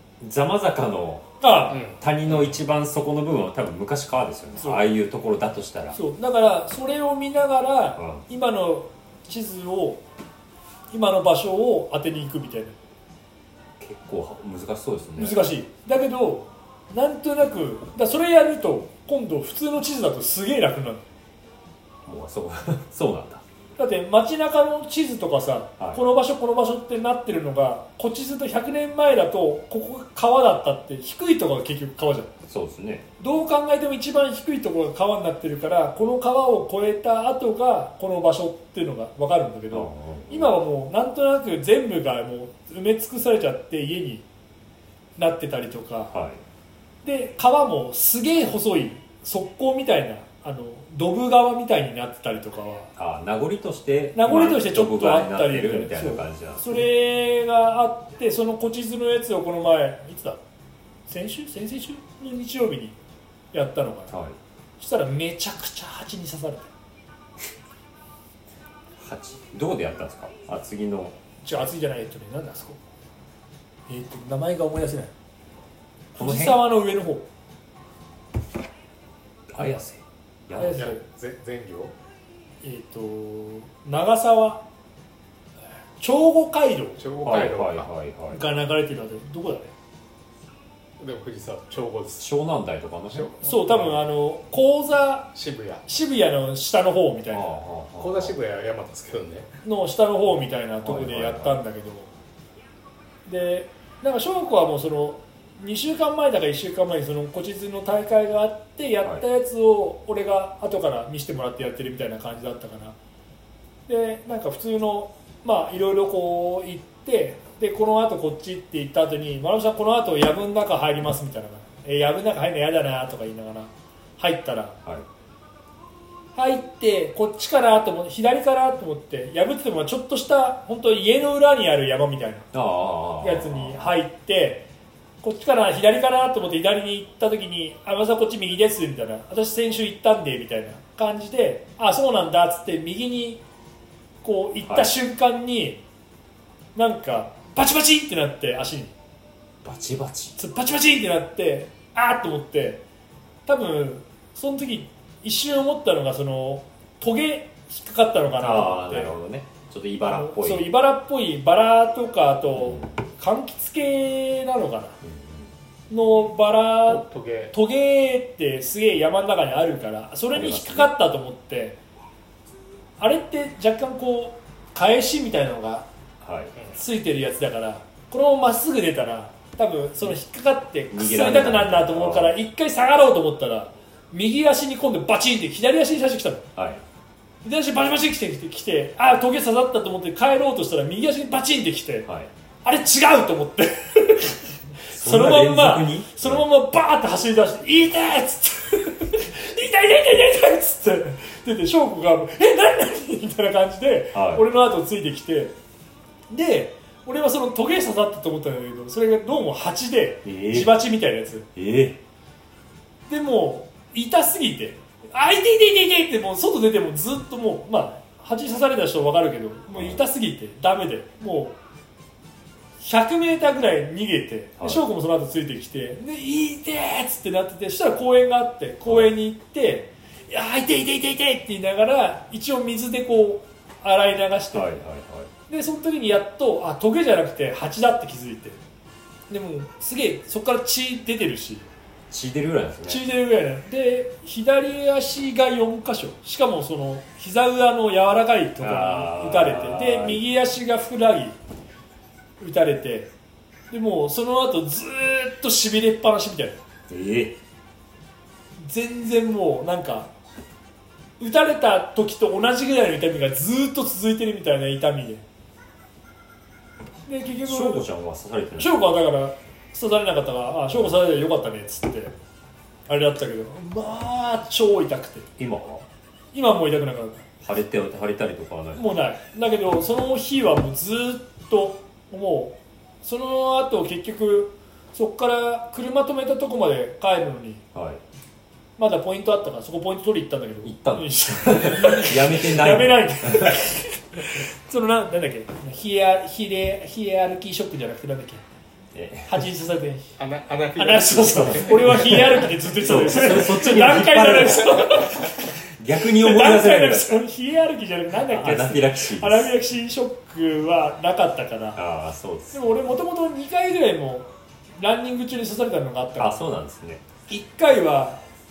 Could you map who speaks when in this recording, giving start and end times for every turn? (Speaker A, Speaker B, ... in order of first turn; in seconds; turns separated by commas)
Speaker A: 0.2-1.3, Speaker B: 1.4-1.9, Speaker C: 1.7-2.0, Speaker A: 1.9-6.0, Speaker B: 4.6-4.8, Speaker B: 5.9-10.0, Speaker A: 8.0-8.2, Speaker B: 10.9-12.8, Speaker A: 13.8-15.4, Speaker B: 15.2-21.0, Speaker A: 22.1-23.4, Speaker B: 23.8-32.3, Speaker A: 32.5-33.0, Speaker B: 33.2-44.2, Speaker A: 39.7-40.6, Speaker B: 45.2-46.1, Speaker A: 46.1-46.4, Speaker B: 47.0-52.9, Speaker A: 53.0-56.9, Speaker B: 54.1-60.4, Speaker B: 61.1-63.0, Speaker B: 63.5-64.1, Speaker A: 64.1-64.4, Speaker B: 64.8-66.7, Speaker A: 69.0-71.2, Speaker B: 71.4-72.8, Speaker B: 73.9-75.1, Speaker B: 76.1-77.3, Speaker A: 76.2-76.6, Speaker A: 79.5-80.8, Speaker B: 80.5-81.0, Speaker C: 80.6-81.9, Speaker B: 82.6-84.6, Speaker B: 86.0-87.0, Speaker C: 87.0-87.9, Speaker A: 87.2-88.4, Speaker B: 88.3-89.7, Speaker C: 91.0-92.3, Speaker A: 92.2-93.3, Speaker C: 93.1-94.0, Speaker B: 93.4-95.3, Speaker C: 95.3-95.8, Speaker B: 95.8-97.5, Speaker A: 97.3-98.3, Speaker C: 98.0-99.5, Speaker B: 99.6-102.1, Speaker A: 100.8-101.6, Speaker B: 103.2-113.0, Speaker B: 113.9-124.8, Speaker B: 126.3-132.5, Speaker A: 132.5-133.9, Speaker B: 133.2-134.7, Speaker B: 135.2-143.4, Speaker B: 144.2-145.8, Speaker A: 144.6-144.9, Speaker B: 146.7-148.9, Speaker A: 149.6-150.3, Speaker B: 150.3-152.8, Speaker B: 153.4-159.1, Speaker A: 158.3-160.7, Speaker B: 160.0-165.0, Speaker A: 162.6-162.9, Speaker A: 165.0-165.5, Speaker B: 165.9-171.8, Speaker C: 166.9-167.5, Speaker A: 170.3-170.9, Speaker B: 173.0-175.9, Speaker A: 176.2-176.5, Speaker B: 176.7-186.5, Speaker A: 180.9-182.3, Speaker A: 186.6-186.8, Speaker B: 187.4-192.1, Speaker B: 192.6-205.5, Speaker A: 194.9-196.4, Speaker A: 204.1-204.4, Speaker B: 206.3-211.5, Speaker A: 210.2-210.8, Speaker A: 211.5-212.0, Speaker B: 213.1-221.6, Speaker A: 219.7-220.0, Speaker B: 222.8-234.7, Speaker A: 224.6-224.8, Speaker A: 228.8-229.1, Speaker A: 234.5-235.3, Speaker B: 235.5-238.6, Speaker B: 239.3-241.7, Speaker A: 242.1-243.0, Speaker B: 242.9-251.4, Speaker A: 248.6-250.2, Speaker B: 252.4-253.1, Speaker B: 253.7-256.6, Speaker A: 256.9-257.4, Speaker B: 258.6-260.1, Speaker B: 261.2-265.2, Speaker B: 267.1-267.9, Speaker A: 267.4-268.8, Speaker B: 268.6-272.1, Speaker B: 272.9-275.3, Speaker A: 275.4-275.9, Speaker B: 276.3-277.3, Speaker A: 277.4-278.9, Speaker B: 278.8-287.6, Speaker A: 287.7-288.0, Speaker B: 288.8-298.4, Speaker A: 290.6-293.6, Speaker A: 298.9-299.4, Speaker B: 299.3-300.1, Speaker C: 300.2-302.2, Speaker B: 300.8-305.3, Speaker A: 301.4-305.2, Speaker A: 305.8-307.2, Speaker B: 306.0-311.8, Speaker A: 308.2-309.5, Speaker A: 311.8-312.7, Speaker B: 312.5-316.5, Speaker A: 316.2-317.0, Speaker B: 317.3-318.2